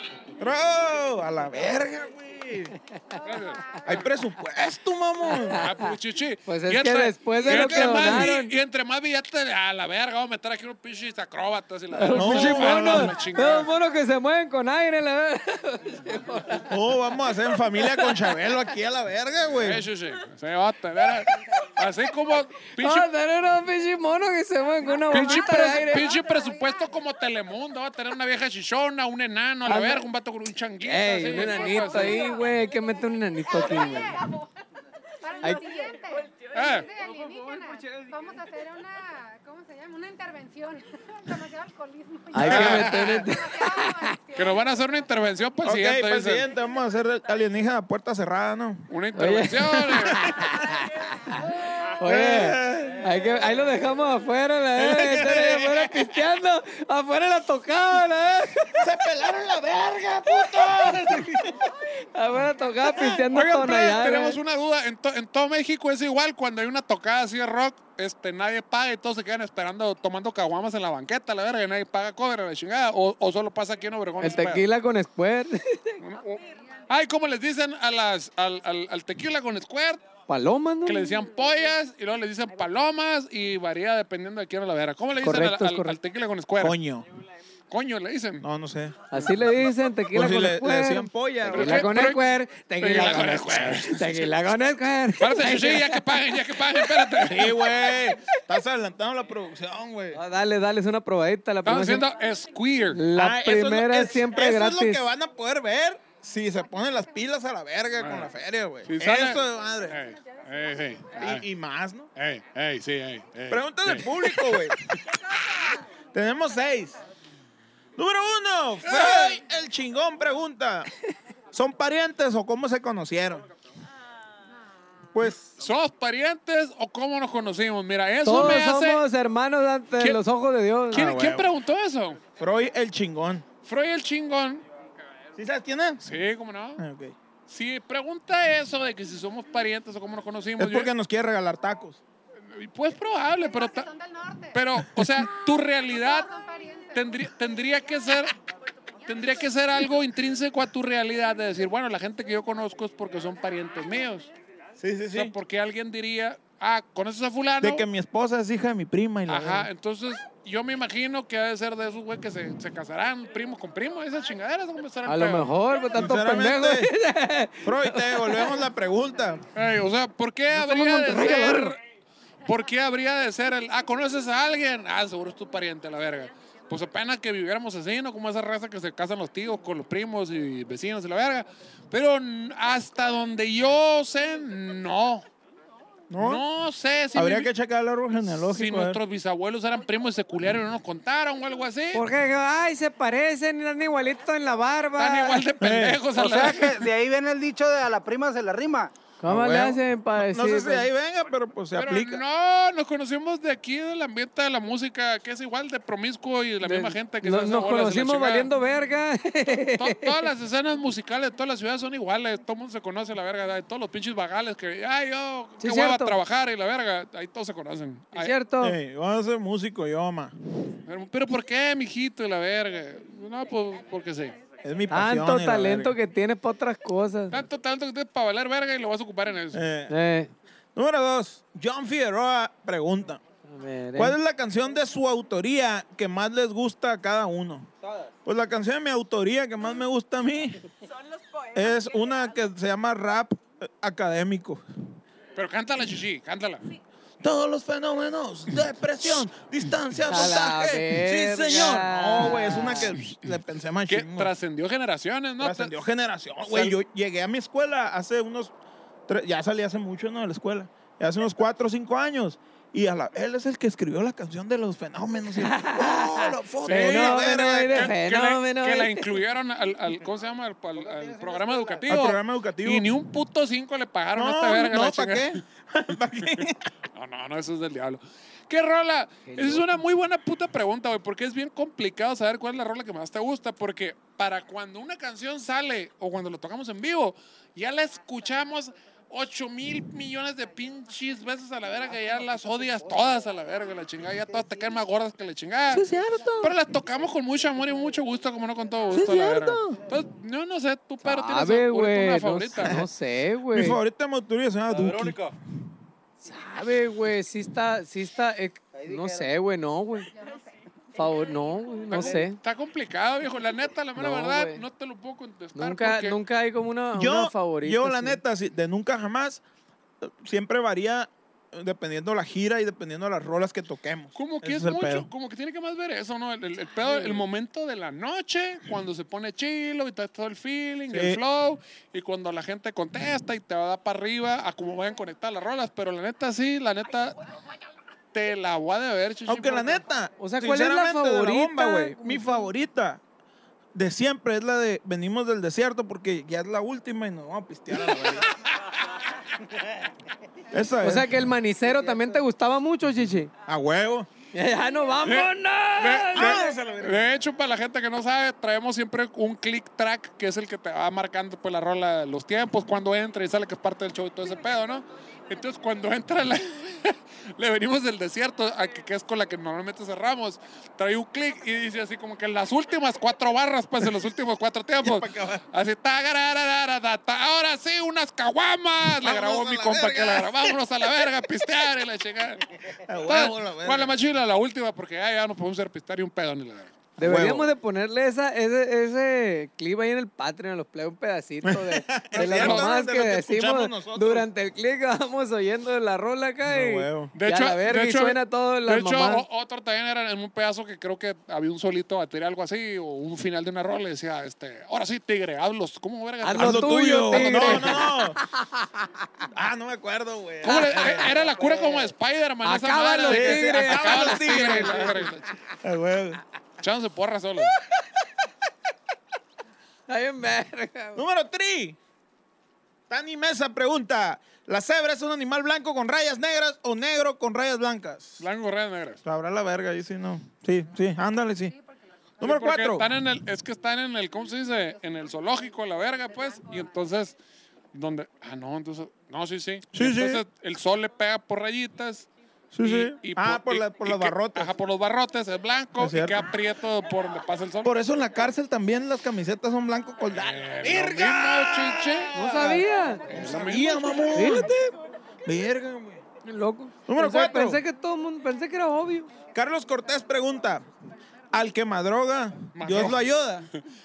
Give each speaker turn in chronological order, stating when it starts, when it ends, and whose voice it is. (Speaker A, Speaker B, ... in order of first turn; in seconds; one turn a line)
Speaker A: 0.4-2.7
Speaker B: 3.2-4.0
Speaker A: 3.9-5.6
Speaker C: 5.3-5.9
Speaker B: 5.5-13.7
Speaker C: 6.5-8.5
Speaker A: 7.5-8.0
Speaker C: 11.9-16.8
Speaker A: 12.1-13.1
Speaker A: 16.7-19.9
Speaker C: 17.4-18.4
Speaker B: 19.5-23.1
Speaker C: 22.8-26.2
Speaker B: 25.1-32.3
Speaker D: 25.5-26.6
Speaker C: 29.7-30.0
Speaker C: 30.9-34.2
Speaker D: 35.2-44.7
Speaker B: 36.5-36.9
Speaker C: 42.3-44.2
Speaker A: 42.4-43.2
Speaker B: 42.4-43.0
Speaker B: 44.4-46.5
Speaker A: 45.6-48.9
Speaker B: 48.9-50.3
Speaker C: 49.1-58.9
Speaker A: 49.9-50.6
Speaker A: 52.0-53.2
Speaker A: 54.7-56.2
Speaker A: 58.7-61.7
Speaker C: 62.1-64.4
Speaker A: 62.9-63.2
Speaker B: 63.3-74.7
Speaker C: 74.2-76.0
Speaker B: 76.0-80.0
Speaker C: 80.3-81.2
Speaker B: 80.8-86.8
Speaker C: 85.2-86.0
Speaker A: 86.6-87.1
Speaker B: 87.7-88.5
Speaker A: 88.4-89.0
Speaker C: 89.1-97.1
Speaker B: 89.1-89.5
Speaker A: 90.1-91.9
Speaker B: 91.5-94.3
Speaker B: 95.2-97.7
Speaker A: 97.2-100.2
Speaker C: 100.1-102.1
Speaker B: 101.6-103.1
Speaker C: 102.9-105.0
Speaker A: 103.1-110.0
Speaker B: 108.0-108.3
Speaker B: 108.9-111.5
Speaker A: 111.1-112.1
Speaker B: 112.2-114.2
Speaker A: 113.5-114.8
Speaker A: 116.1-117.0
Speaker A: 118.0-120.9
Speaker B: 118.8-119.4
Speaker A: 121.5-123.5
Speaker A: 125.1-125.5
Speaker B: 125.6-129.0
Speaker C: 128.2-131.1
Speaker B: 130.9-132.2
Speaker A: 130.9-131.5
Speaker A: 132.4-133.4
Speaker B: 133.6-134.6
Speaker A: 135.4-136.0
Speaker B: 136.0-136.8
Speaker A: 136.8-137.1
Speaker B: 137.5-140.9
Speaker A: 140.6-142.0
Speaker B: 142.4-143.9
Speaker D: 143.4-144.6
Speaker B: 144.5-146.3
Speaker D: 145.8-147.2
Speaker B: 146.9-148.3
Speaker B: 149.1-154.3
Speaker A: 154.8-155.3
Speaker B: 155.1-157.8
Speaker A: 157.6-159.7
Speaker B: 159.3-165.5
Speaker C: 165.1-168.6
Speaker A: 165.9-166.9
Speaker A: 167.6-169.4
Speaker B: 169.6-171.8
Speaker C: 170.5-171.8
Speaker B: 172.4-185.3
Speaker A: 186.1-186.4
Speaker B: 186.2-187.5
Speaker A: 187.1-189.0
Speaker B: 188.4-192.1
Speaker C: 191.9-195.4
Speaker B: 195.0-196.9
Speaker A: 195.6-196.0
Speaker E: 196.1-198.9
Speaker C: 199.2-200.9
Speaker A: 199.3-202.2
Speaker B: 201.7-208.5
Speaker C: 206.6-210.2
Speaker B: 209.7-218.3
Speaker C: 215.6-216.2
Speaker C: 218.1-218.8
Speaker A: 218.6-220.3
Speaker B: 220.9-224.4
Speaker A: 224.6-226.0
Speaker C: 224.9-227.4
Speaker B: 227.3-229.6
Speaker A: 229.5-229.9
Speaker C: 229.9-230.3
Speaker A: 230.7-233.2
Speaker C: 233.5-234.2
Speaker A: 233.9-237.7
Speaker A: 238.2-240.6
Speaker A: 241.5-244.6
Speaker B: 245.3-246.7
Speaker A: 247.2-254.3
Speaker C: 250.1-252.9
Speaker B: 253.9-255.8
Speaker A: 255.4-258.5
Speaker B: 256.4-256.8
Speaker A: 259.1-267.9
Speaker C: 265.4-269.1
Speaker B: 266.6-275.4
Speaker E: 270.8-271.9
Speaker A: 271.9-272.9
Speaker A: 274.1-276.7
Speaker B: 276.3-302.9
Speaker C: 279.3-279.7
Speaker A: 295.7-296.6
Speaker A: 298.9-299.8
Speaker C: 301.0-303.8
Speaker A: 303.5-305.4
Speaker C: 306.3-310.1
Speaker E: 308.7-309.3
Speaker C: 310.9-312.4
Speaker B: 311.9-316.2
Speaker C: 314.0-314.6
Speaker C: 315.6-318.2
Speaker A: 316.9-319.4
Speaker A: 320.0-325.1
Speaker B: 324.2-337.2
Speaker A: 330.9-331.2
Speaker B: 338.1-339.8
Speaker A: 339.3-343.0
Speaker C: 340.2-342.5
Speaker A: 343.7-348.3
Speaker B: 348.5-348.8
Speaker A: 350.5-351.1
Speaker C: 350.8-353.3
Speaker E: 351.6-352.2
Speaker A: 353.4-354.1
Speaker C: 354.3-356.5
Speaker B: 355.0-382.4
Speaker A: 356.1-357.1
Speaker A: 374.8-375.4
Speaker A: 378.8-380.6
Speaker A: 382.8-383.9
Speaker B: 383.1-386.8
Speaker C: 387.0-399.2
Speaker A: 387.0-387.5
Speaker A: 391.4-394.3
Speaker B: 392.2-392.7
Speaker A: 396.5-397.1
Speaker B: 397.1-407.8
Speaker C: 406.2-408.9
Speaker A: 406.4-408.2
Speaker A: 409.3-411.6
Speaker B: 410.4-415.3
Speaker C: 410.4-411.9
Speaker C: 412.4-415.1
Speaker A: 413.1-416.2
Speaker B: 416.6-417.6
Speaker C: 419.9-421.0
Speaker A: 420.9-421.8
Speaker A: 422.9-428.2
Speaker B: 428.2-429.0
Speaker A: 429.1-431.5
Speaker A: 432.2-432.9
Speaker B: 432.2-437.2
Speaker B: 437.7-442.1
Speaker A: 439.7-440.2
Speaker A: 442.5-444.5
Speaker B: 442.6-447.8
Speaker A: 445.8-446.3
Speaker A: 447.6-456.0
Speaker B: 450.1-452.2
Speaker C: 452.1-453.1
Speaker B: 453.1-454.1
Speaker C: 454.1-454.5
Speaker C: 456.2-459.1
Speaker A: 456.9-457.6
Speaker A: 459.3-460.7
Speaker A: 461.3-463.5
Speaker B: 462.6-463.6